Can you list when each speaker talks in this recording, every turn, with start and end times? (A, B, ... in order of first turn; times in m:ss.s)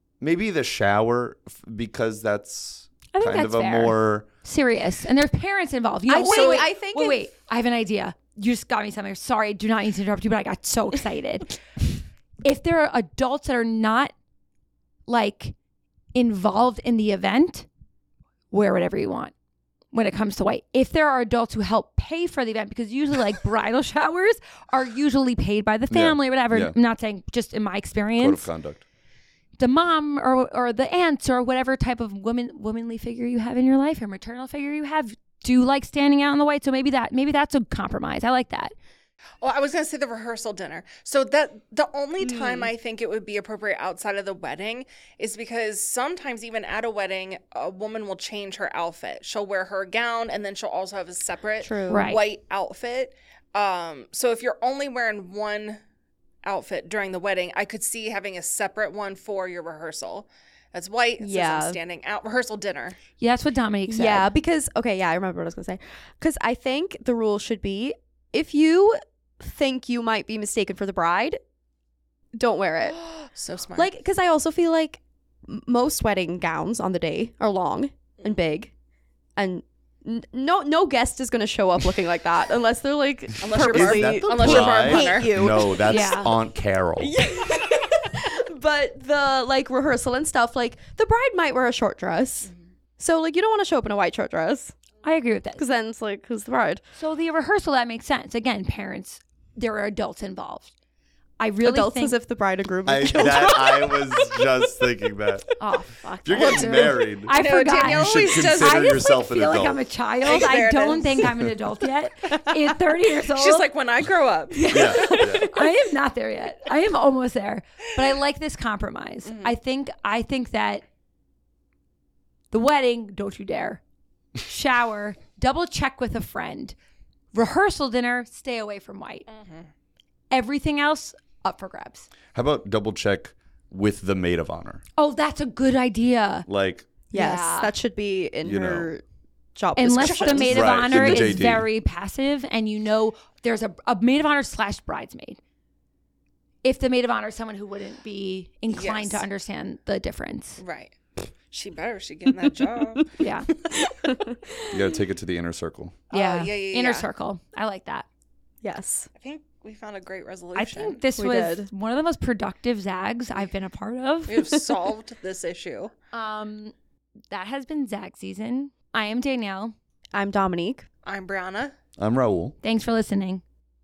0:00.2-0:04.3 A
0:03.1-0:11.8 B
0:06.1-0:07.3 C
0:06.3-0:06.6 D
0:12.4-0:14.1 B
0:15.1-0:15.6 B
0:16.1-0:17.7 B
0:18.5-0:19.3 B
0:19.9-0:28.5 B
0:25.9-0:26.8 A
0:28.2-0:28.8 A
0:29.6-0:38.7 B
0:39.4-0:55.8 D
0:42.2-0:42.7 C
0:51.6-0:52.2 C
0:51.9-0:52.2 B
0:56.4-1:03.0 D
1:01.2-1:01.8 C
1:03.2-1:04.3 B
1:03.9-1:11.4 C
1:12.4-1:13.0 C
1:13.3-1:13.9 D
1:13.8-1:18.7 C
1:19.4-1:25.9 C
1:23.4-1:25.3 D
1:23.5-1:27.2 A
1:25.8-1:26.3 B
1:27.0-1:34.8 C
1:35.0-1:35.6 B
1:35.6-1:36.8 C
1:37.0-1:40.7 B
1:41.4-1:42.2 B
1:41.6-1:44.0 C
1:42.9-1:45.5 A
1:45.6-1:53.7 B
1:46.2-1:49.8 A
1:46.4-1:47.0 C
1:47.3-1:49.2 D
1:50.2-1:51.4 D
1:53.2-1:55.4 D
1:54.5-2:00.8 B
1:54.7-1:55.5 A
1:59.2-1:59.6 D
2:02.5-2:03.8 B
2:04.4-2:06.8 B
2:07.3-2:09.2 B
2:09.3-2:09.7 D
2:10.3-2:12.1 B
2:12.3-2:14.8 A
2:15.0-2:16.5 B
2:16.5-2:16.9 A
2:17.1-2:19.0 C
2:17.1-2:17.7 B
2:18.4-2:18.9 A
2:19.6-2:21.5 C
2:19.8-2:25.4 B
2:20.0-2:21.0 D
2:20.4-2:21.7 A
2:26.6-2:30.6 B
2:28.7-2:29.3 D
2:30.6-2:31.0 D
2:31.5-2:33.1 D
2:33.2-2:33.5 B
2:33.9-2:34.8 C
2:34.7-2:36.0 A
2:36.1-2:37.1 D
2:36.1-2:38.1 B
2:38.6-2:39.1 C
2:39.2-2:41.0 D
2:40.6-2:44.5 B
2:41.2-2:41.7 C
2:44.3-2:45.9 D
2:46.1-2:46.7 B
2:47.3-2:49.7 B
2:50.1-2:50.9 C
2:51.0-2:51.7 D
2:52.0-2:52.6 A
2:52.6-2:53.4 B